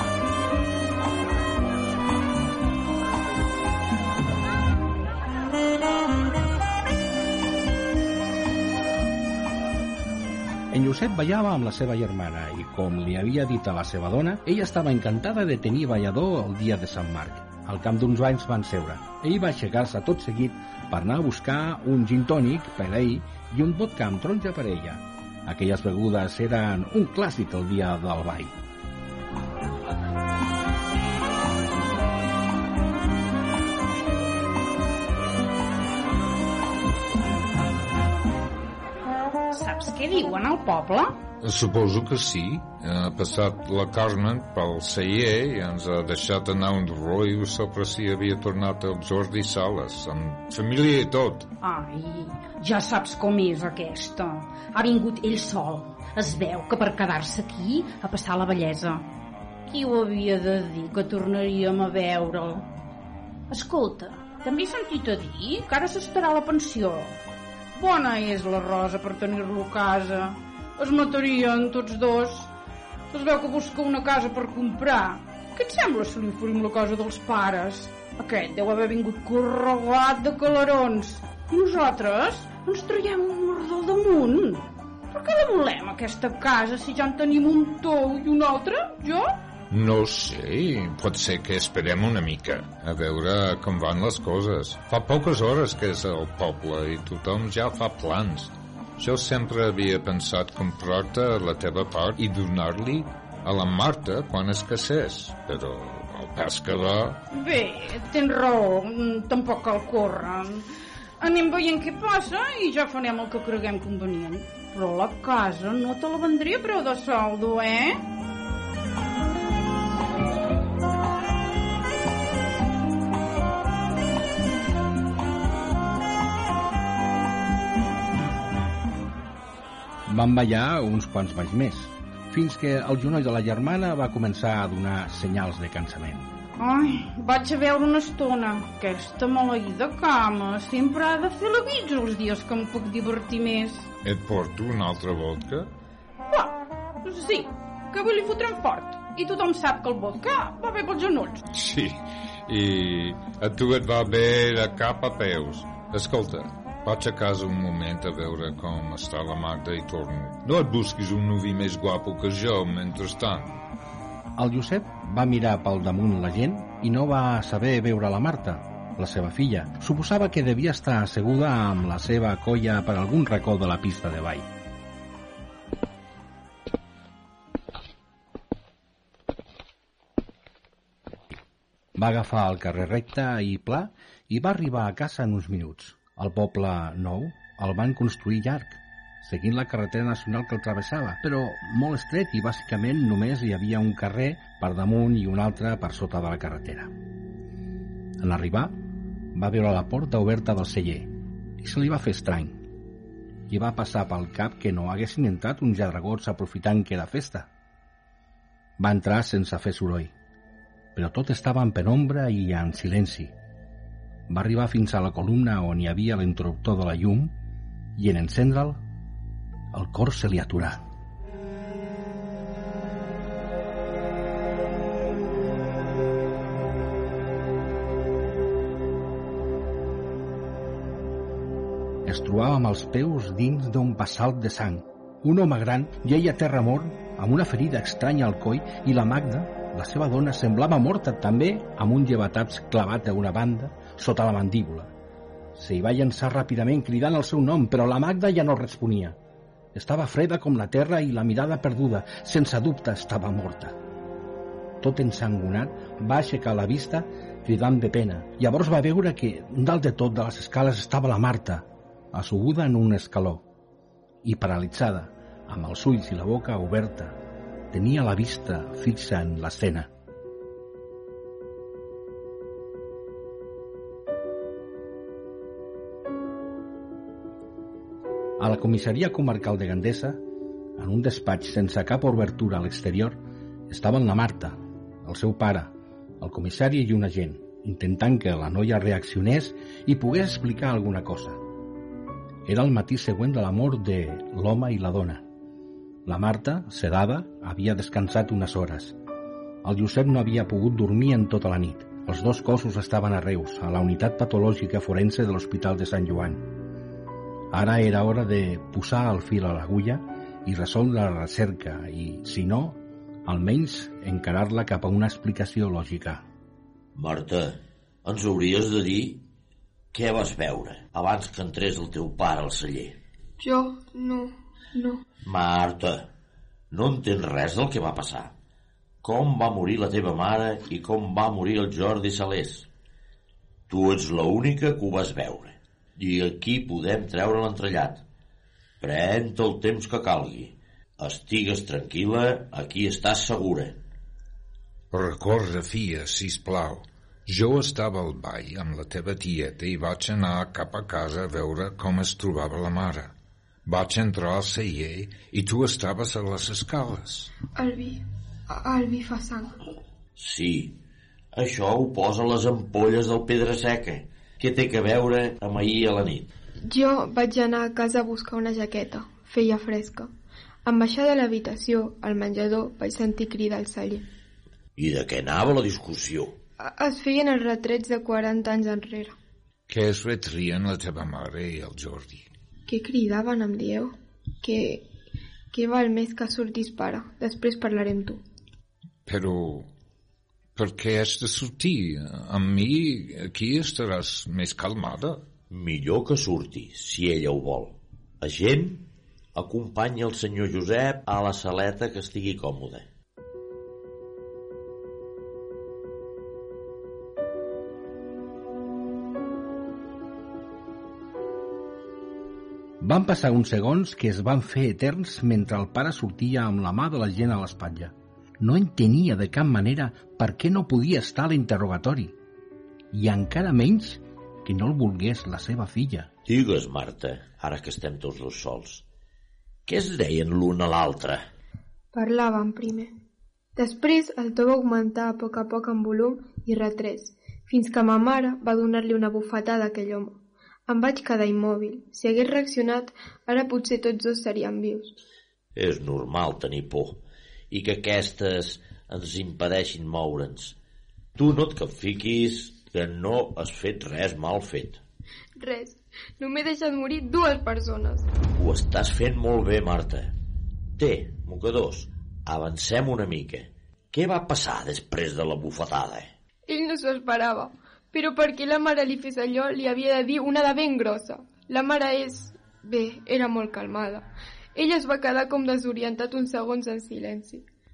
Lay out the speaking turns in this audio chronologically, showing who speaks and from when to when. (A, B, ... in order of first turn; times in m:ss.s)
0:10.7-0:28.5 A
0:39.5-0:41.2 B
0:41.4-0:51.5 C
0:51.6-0:59.1 B
0:59.7-1:02.7 B
1:03.5-1:07.2 B
1:07.8-1:12.5 B
1:13.1-1:29.4 B
1:29.7-1:47.2 C
1:47.3-1:50.7 B
1:51.2-1:58.0 B
2:10.1-2:16.3 A
2:16.6-2:23.9 B
2:24.0-2:25.7 C
2:26.3-2:31.4 B
2:31.5-2:43.6 C
2:44.4-2:54.5 A
3:02.0-3:16.9 A
3:18.2-3:18.8 A
3:19.3-3:22.6 A
3:23.5-3:27.5 A
3:28.8-3:30.1 A
3:31.0-3:33.3 A
3:34.3-3:37.3 A
3:38.0-3:38.8 A
3:39.7-3:40.8 A
3:52.0-4:04.9 A
4:05.6-4:09.2 A
4:09.7-4:13.8 A
4:14.8-4:23.4 A
4:24.2-4:27.2 A
4:27.7-4:29.9 A
4:38.4-4:40.2 A
4:40.8-4:51.4 A
4:52.5-4:55.2 A
4:56.0-4:59.0 A
4:59.6-5:06.6 A
5:07.5-5:16.2 A
5:17.0-5:19.2 D
5:19.9-5:23.0 D
5:23.4-5:25.0 E
5:25.3-5:26.1 D
5:26.7-5:28.3 D
5:29.0-5:32.7 D
5:33.7-5:38.0 D
5:38.8-5:43.8 D
5:44.9-5:53.1 C
5:53.7-5:57.3 C
5:57.6-5:59.6 E
6:00.2-6:00.7 D
6:01.3-6:06.3 D
6:06.7-6:10.1 E
6:10.6-6:14.0 E
6:14.8-6:16.3 D
6:16.6-6:19.2 E
6:19.7-6:22.3 C
6:22.7-6:24.9 E
6:25.5-6:28.2 E
6:29.1-6:29.7 C
6:30.6-6:35.2 C
6:35.5-6:38.8 D
6:39.4-6:42.9 D
6:52.8-7:02.2 A
7:02.9-7:06.1 A
7:06.3-7:08.8 D
7:09.7-7:11.3 D
7:11.9-7:12.9 E
7:13.6-7:25.0 E
7:25.6-7:27.0 D
7:27.5-7:30.6 D
7:31.2-7:34.8 D
7:35.4-7:38.1 E
7:38.4-7:40.1 D
7:40.8-7:46.1 D
7:46.5-7:57.4 E